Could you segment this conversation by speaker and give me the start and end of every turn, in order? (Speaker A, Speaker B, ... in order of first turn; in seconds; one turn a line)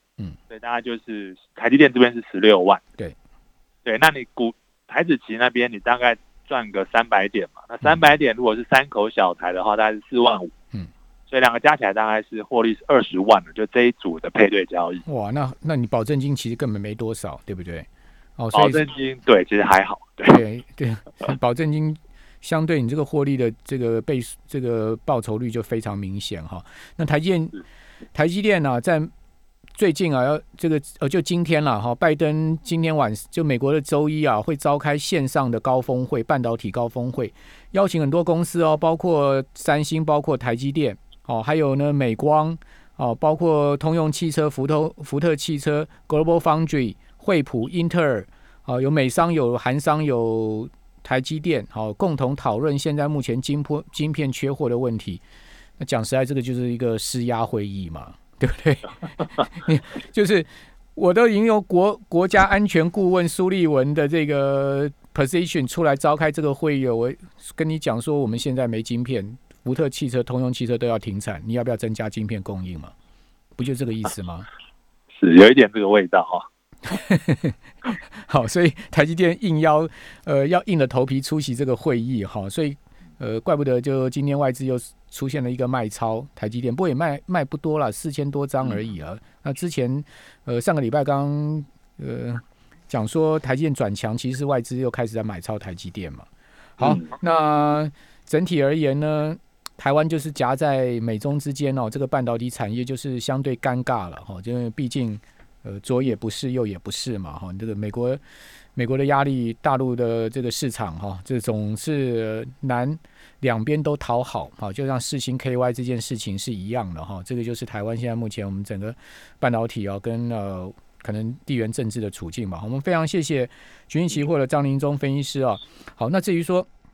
Speaker A: 0.5-2.8
Speaker A: 3.8-10.5
Speaker A: 11.3-15.0
Speaker B: 15.0-18.9
Speaker A: 18.5-20.4
Speaker B: 20.2-27.6
Speaker B: 28.1-29.1
Speaker B: 29.8-55.2
Speaker B: 55.8-72.9
Speaker B: 73.6-74.5
Speaker A: 75.1-76.5
Speaker B: 76.9-77.6
Speaker B: 78.2-108.2
Speaker A: 96.8-97.1
Speaker B: 108.8-126.7